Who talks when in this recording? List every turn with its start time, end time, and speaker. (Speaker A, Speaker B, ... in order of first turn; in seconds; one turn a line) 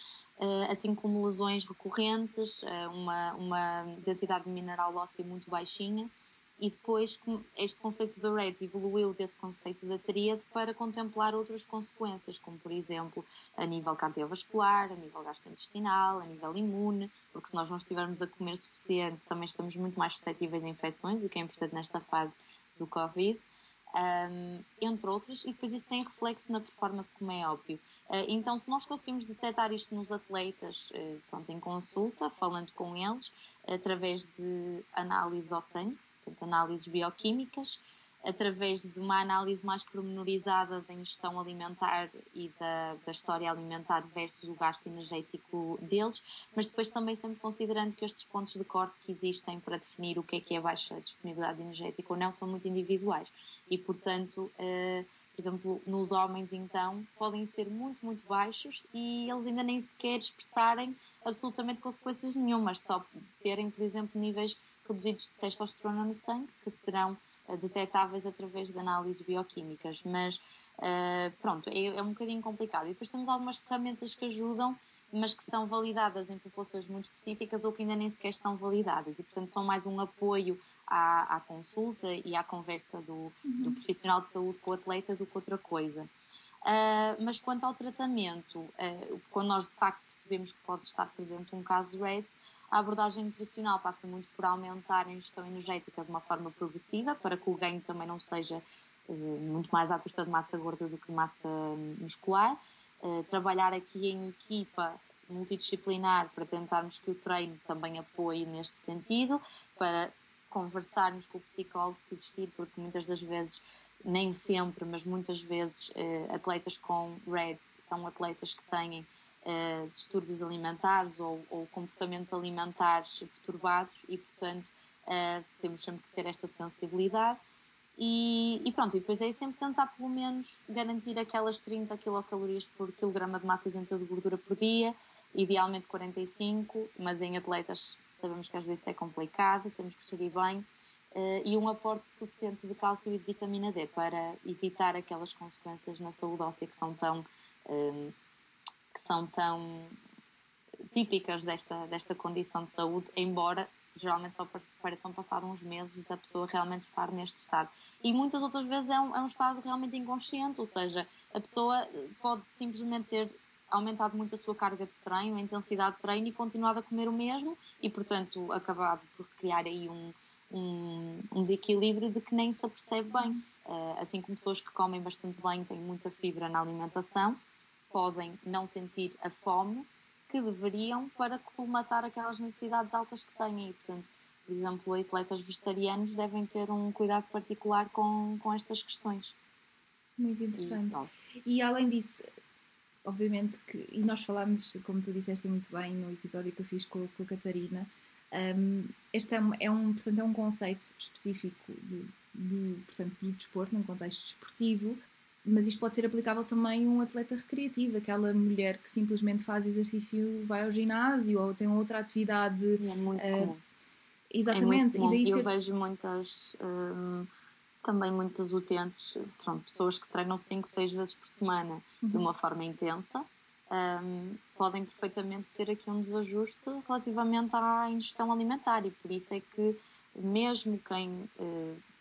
Speaker A: 0.4-86.1
Speaker B: 83.5-83.8
Speaker A: 86.7-127.4
Speaker A: 128.0-148.1
Speaker A: 148.9-150.0
Speaker A: 150.9-177.4
Speaker A: 177.9-189.3
Speaker B: 190.2-192.2
Speaker A: 190.6-191.1
Speaker B: 193.1-213.5
Speaker A: 212.8-213.6
Speaker B: 214.3-215.5
Speaker A: 214.5-217.3
Speaker A: 217.8-231.8
Speaker B: 222.0-222.3